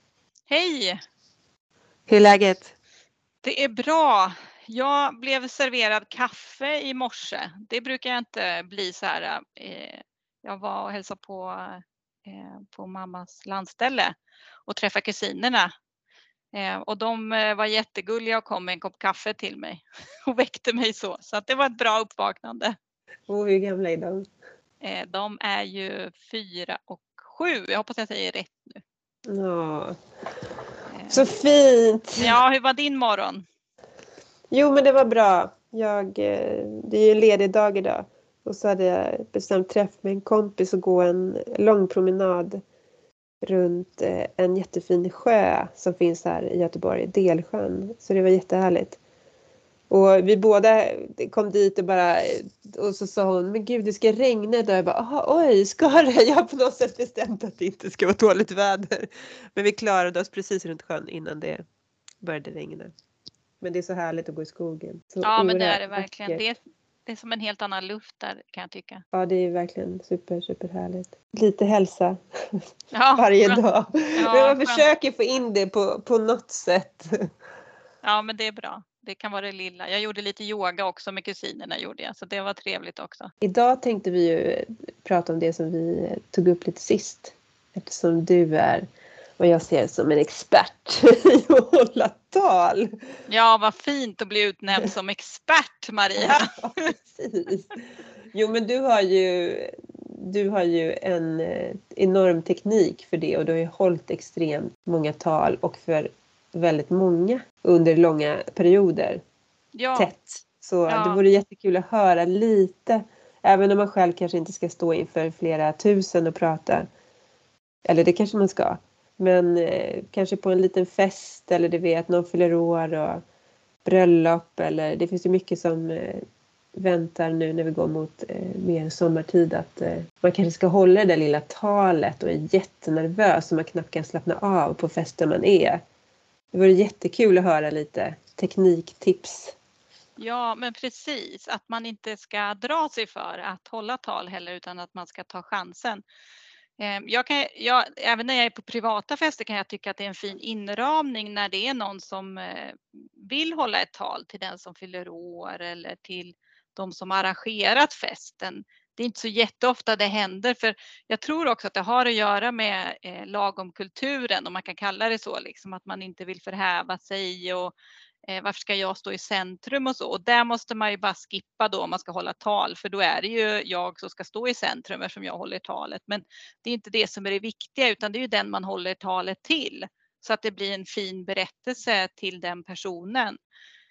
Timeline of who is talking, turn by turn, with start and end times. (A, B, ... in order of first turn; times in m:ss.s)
0:00.5-0:01.0 A
0:02.1-0:02.7 B
0:03.4-0:14.1 A
0:14.7-0:15.7 A
0:16.5-0:22.8 A
0:23.3-0:24.3 B
0:24.8-0:28.8 A
0:29.3-0:30.0 B
0:30.9-0:31.3 A
0:31.1-0:32.3 B
0:32.2-0:33.4 A
0:34.5-0:42.6 B
0:43.4-0:49.0 B
0:49.9-1:01.6 B
1:02.2-1:02.9 B
1:03.6-1:06.4 B
1:05.2-1:09.0 A
1:09.1-1:12.6 B
1:12.9-1:13.6 A
1:13.2-1:17.3 B
1:14.2-1:14.8 A
1:18.0-1:23.3 A
1:23.4-1:28.8 B
1:29.4-1:32.9 B
1:33.3-1:36.9 A
1:36.2-1:49.2 B
1:49.8-1:50.1 A
1:50.0-1:56.8 B
1:50.9-1:51.2 A
1:57.8-2:03.2 B
2:03.8-2:06.2 B
2:06.7-2:15.8 B
2:16.5-2:19.6 B
2:20.2-2:26.0 A
2:26.8-2:47.7 A
2:48.3-3:03.4 A